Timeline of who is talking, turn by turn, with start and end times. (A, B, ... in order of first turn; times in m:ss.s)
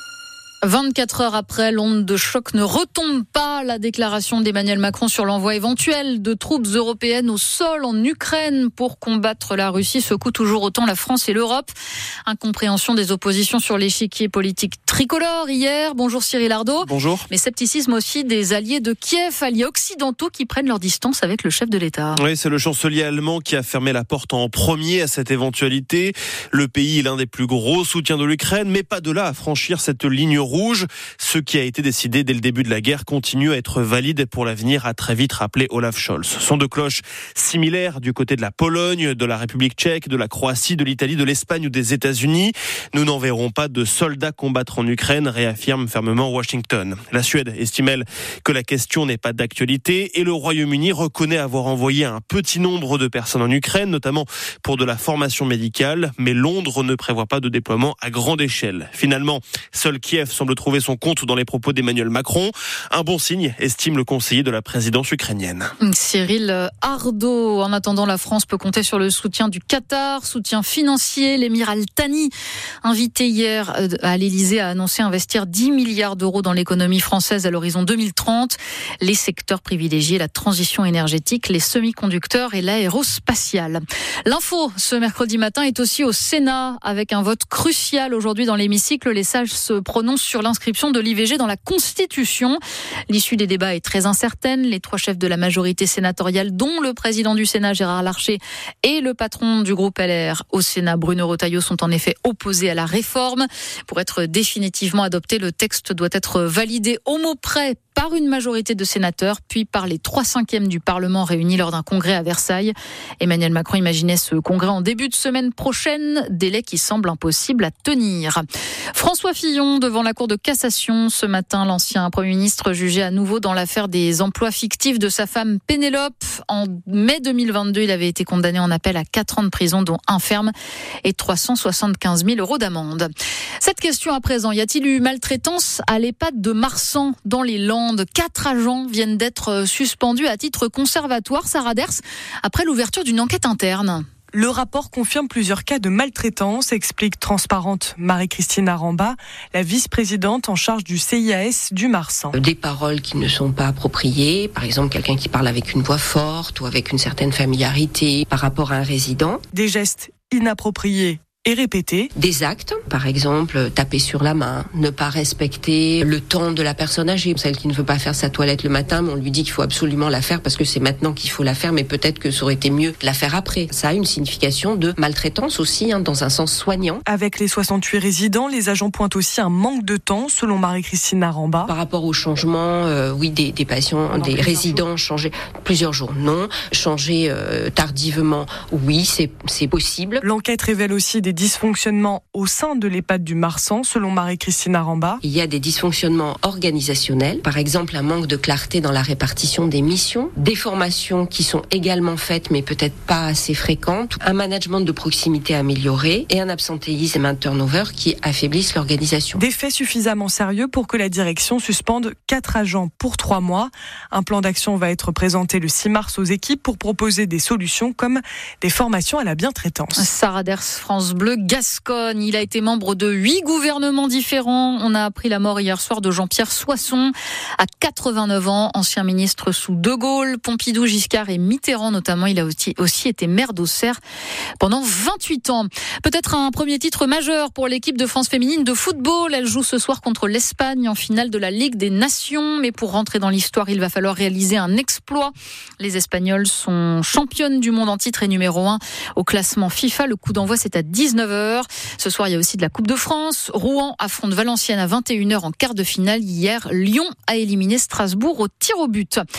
0:00.6-0:11.7 A
0:12.3-0:22.2 A
0:16.8-0:17.2 B
0:22.2-1:05.7 B
1:05.8-1:12.3 A
1:12.8-1:58.4 A
1:58.9-2:10.5 A
2:11.0-2:13.1 A
2:13.6-2:24.0 A
2:24.3-2:32.3 C
2:32.3-2:39.4 D
2:39.5-2:42.1 C
2:42.2-2:57.0 D
2:57.1-3:01.7 C
3:01.6-3:10.2 D
3:04.1-3:04.8 C
3:10.2-3:15.2 C
3:15.2-3:29.4 D
3:29.4-3:40.0 C
3:39.9-3:54.0 A
3:54.6-4:19.2 A